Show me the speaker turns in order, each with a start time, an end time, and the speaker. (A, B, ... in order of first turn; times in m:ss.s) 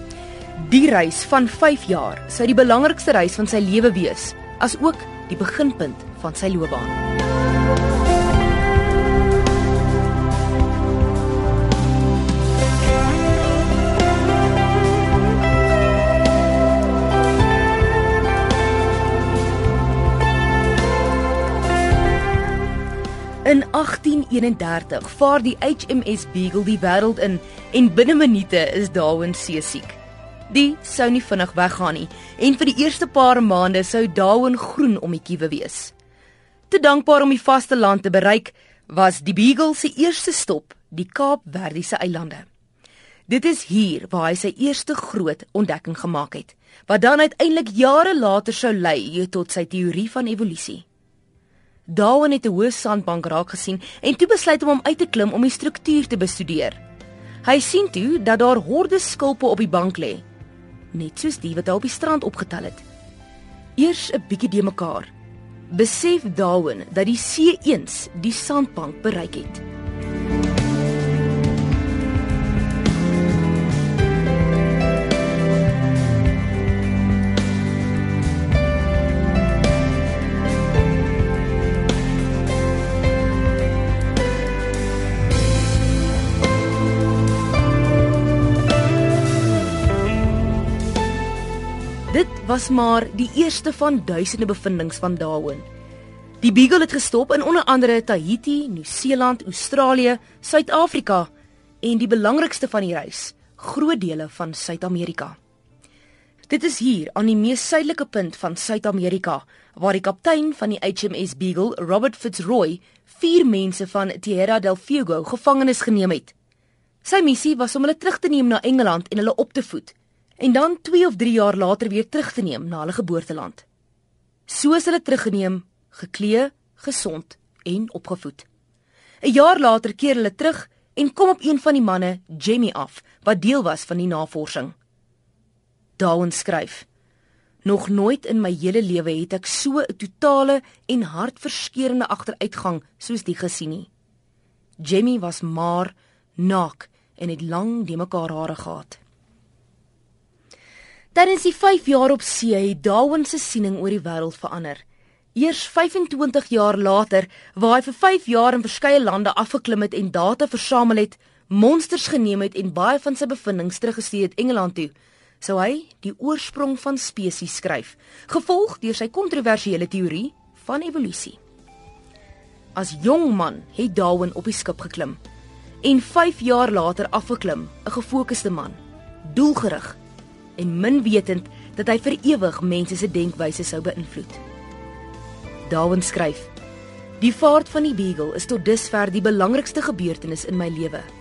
0:00.6-0:07.0 A
0:23.4-0:35.9 A
0:36.7-0:42.5 A
0:43.3-0:50.8 A
0:51.9-0:56.8 A
0:57.4-1:00.2 A
1:00.9-1:02.8 A
1:03.8-1:05.1 A
1:05.7-1:09.6 A
1:32.1-1:35.6 A
1:36.4-1:41.3 A
1:41.8-1:45.4 A
1:46.5-1:56.3 A
1:57.0-2:03.6 A
2:04.5-2:08.5 A
2:09.2-2:14.7 A
2:16.0-2:16.8 A
2:17.6-2:23.9 A
2:24.8-2:29.0 A
2:31.1-2:34.8 A
2:35.3-2:51.4 A
2:52.7-2:55.2 A
2:55.8-3:00.0 A
3:00.6-3:04.4 A
3:05.6-3:06.5 A
3:07.2-3:11.1 A